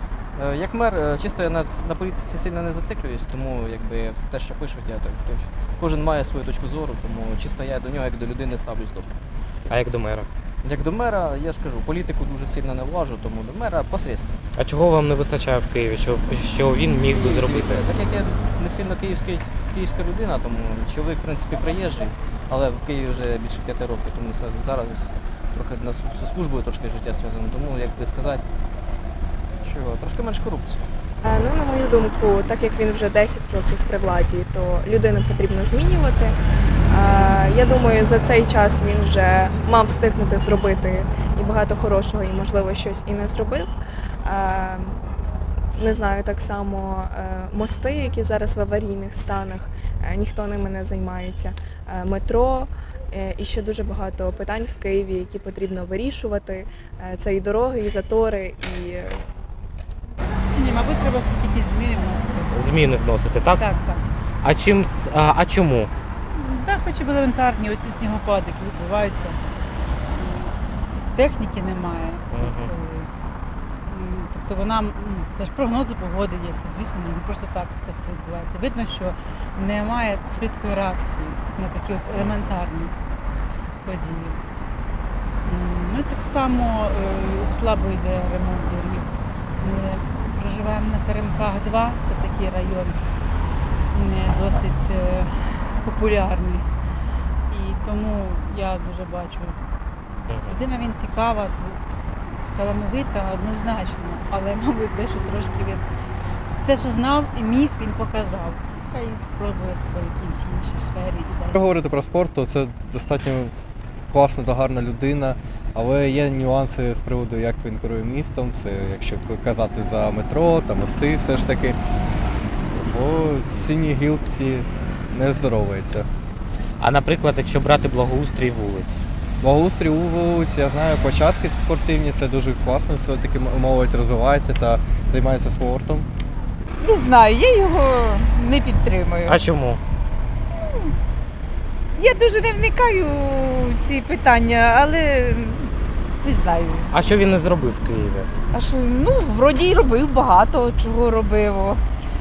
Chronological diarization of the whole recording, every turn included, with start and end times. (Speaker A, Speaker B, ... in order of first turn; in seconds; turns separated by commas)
Speaker A: 0.4-9.1, Speaker B: 9.7-10.3, Speaker A: 10.6-14.4, Speaker B: 14.6-17.8, Speaker A: 17.1-28.4, Speaker A: 29.6-30.8, Speaker C: 31.2-36.4, Speaker C: 36.9-43.7, Speaker C: 44.2-45.0, Speaker C: 45.8-59.3, Speaker D: 60.5-62.9, Speaker B: 62.5-63.6, Speaker D: 63.5-64.1, Speaker B: 64.4-65.9, Speaker D: 66.3-69.4, Speaker D: 70.2-70.5, Speaker D: 71.1-73.1, Speaker B: 72.3-72.7, Speaker D: 73.9-82.9, Speaker B: 82.1-82.5, Speaker D: 83.8-84.4, Speaker D: 85.5-89.1, Speaker D: 89.6-93.0, Speaker D: 93.9-96.7, Speaker D: 97.5-99.6, Speaker D: 100.5-101.8, Speaker D: 102.5-105.8, Speaker D: 106.6-111.6, Speaker E: 111.6-113.5, Speaker E: 114.1-121.8, Speaker E: 122.8-126.1, Speaker B: 126.8-129.0, Speaker E: 129.4-136.1, Speaker F: 136.8-139.4, Speaker B: 139.2-139.8, Speaker F: 140.6-140.9, Speaker F: 141.9-145.7, Speaker F: 146.2-146.9, Speaker B: 146.9-148.3, Speaker F: 148.5-151.8